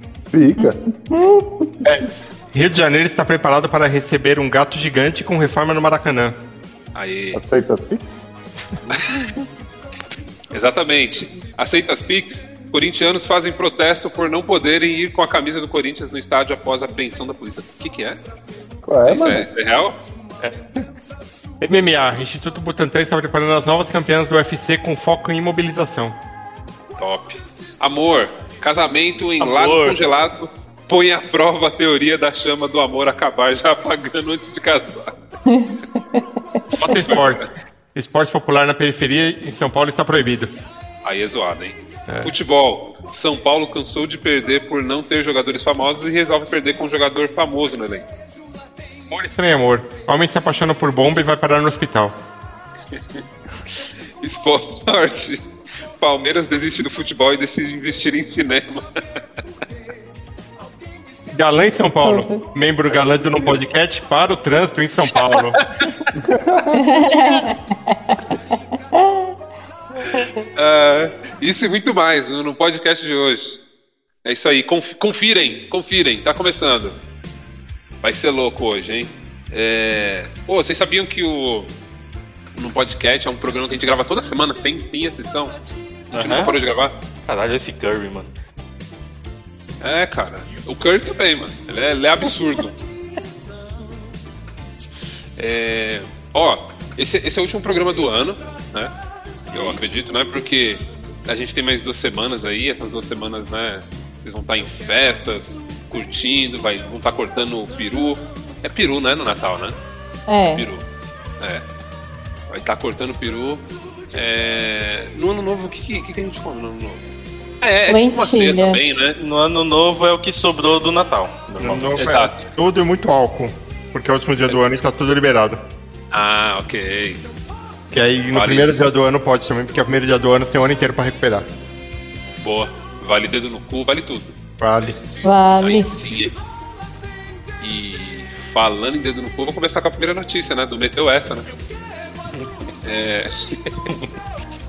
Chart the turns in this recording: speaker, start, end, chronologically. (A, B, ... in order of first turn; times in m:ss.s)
0:00.3-0:00.8 A
0:00.6-0:01.4 B
0:01.8-0:06.3 C
0:06.9-0:07.4 D
0:07.3-0:08.3 A
0:08.9-0:09.2 D
0:10.5-0:18.2 D
0:18.8-0:19.5 A
0:19.0-0:20.0 D
0:21.6-0:26.2 C
0:27.0-0:35.1 D
0:29.4-0:30.0 E
0:35.5-0:37.0 B
0:36.7-0:37.5 D
0:36.8-0:37.4 C
0:37.9-0:40.5 C
0:41.0-0:48.0 D
0:42.1-0:42.3 C
0:49.1-0:52.1 C
0:53.7-0:55.4 D
0:56.0-0:58.9 D
1:01.3-1:05.6 C
1:02.0-1:02.4 B
1:06.2-1:06.8 A
1:06.7-1:08.4 B
1:08.9-1:09.3 B
1:10.6-1:13.6 D
1:14.2-1:17.0 D
1:18.0-1:21.7 D
1:22.6-1:25.6 D
1:26.1-1:26.9 D
1:26.1-1:26.5 E
1:27.2-1:28.3 E
1:29.8-1:32.8 D
1:35.4-1:38.9 D
1:39.5-1:39.8 E
1:39.5-1:49.8 D
1:50.3-1:50.7 B
1:50.5-1:50.8 D
1:52.5-1:57.0 D
1:57.6-1:59.2 D
1:57.9-1:58.8 B
1:59.2-2:02.0 E
2:01.6-2:05.6 C
2:02.0-2:02.5 D
2:06.1-2:07.2 D
2:07.9-2:11.4 C
2:08.3-2:08.8 D
2:12.4-2:16.3 D
2:14.6-2:15.0 C
2:15.2-2:15.9 B
2:17.6-2:21.5 D
2:22.3-2:22.7 E
2:22.8-2:23.6 D